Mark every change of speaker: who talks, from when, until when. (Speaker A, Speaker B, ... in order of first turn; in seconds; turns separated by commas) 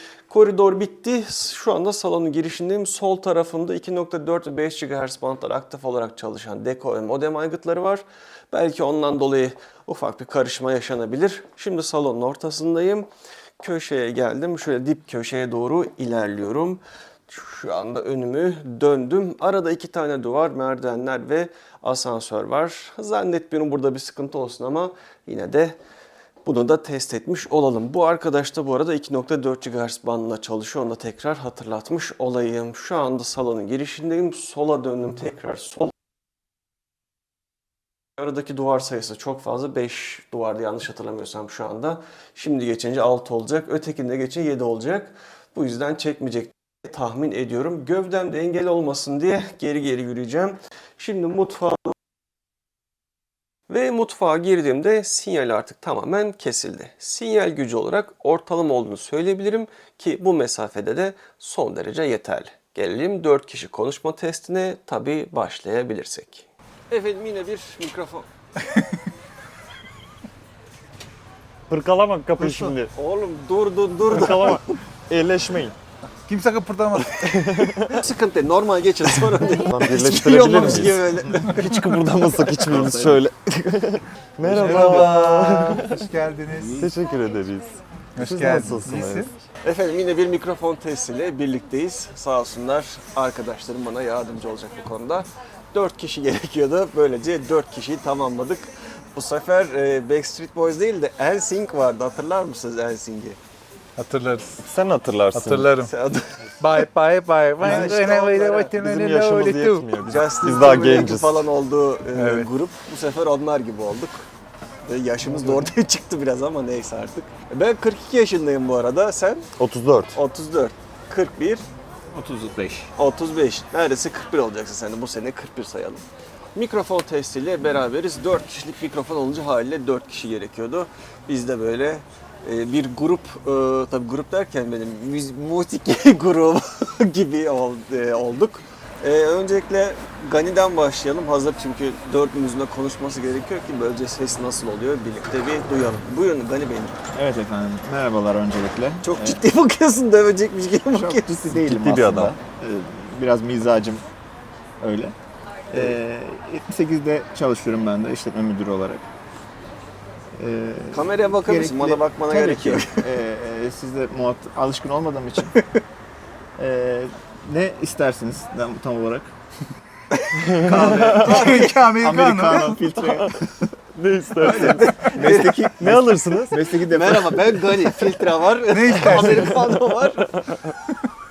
Speaker A: 0.3-13.1, Speaker A: 13.6-25.8, Speaker A: 26.4-35.9, Speaker A: 38.2-51.9, Speaker A: 53.7-68.3, Speaker B: 71.7-72.9, Speaker A: 72.4-74.8, Speaker B: 74.1-75.7, Speaker C: 76.3-77.2, Speaker B: 77.2-78.0, Speaker A: 77.9-82.7, Speaker B: 79.5-86.1, Speaker D: 82.7-83.2, Speaker C: 84.4-86.8, Speaker A: 84.7-85.1, Speaker B: 86.7-89.3, Speaker C: 88.2-89.3, Speaker A: 89.6-103.4, Speaker C: 104.0-104.6, Speaker B: 104.6-105.7, Speaker C: 105.3-105.9, Speaker A: 105.8-106.3, Speaker C: 106.6-109.9, Speaker A: 107.6-108.7, Speaker B: 107.6-108.0, Speaker B: 108.7-111.5, Speaker A: 110.1-114.3, Speaker C: 112.1-112.5, Speaker A: 114.8-119.5, Speaker D: 115.2-115.7, Speaker B: 119.6-120.2, Speaker A: 120.1-121.6, Speaker D: 122.1-122.9, Speaker A: 123.0-126.0, Speaker A: 126.5-147.0, Speaker D: 147.1-149.4, Speaker A: 149.0-151.5, Speaker D: 150.9-154.0, Speaker B: 151.5-152.3, Speaker D: 154.8-155.2, Speaker D: 155.7-159.1, Speaker D: 160.3-165.5, Speaker A: 160.9-163.0, Speaker D: 166.6-169.3, Speaker A: 170.2-171.9, Speaker B: 170.4-171.6, Speaker D: 170.9-171.3, Speaker C: 171.3-172.8, Speaker D: 172.0-173.7, Speaker B: 173.0-173.4, Speaker B: 173.9-174.9, Speaker A: 174.4-180.3, Speaker D: 175.2-178.0, Speaker B: 175.8-176.5, Speaker C: 178.7-179.5, Speaker B: 179.1-179.8, Speaker B: 180.3-180.7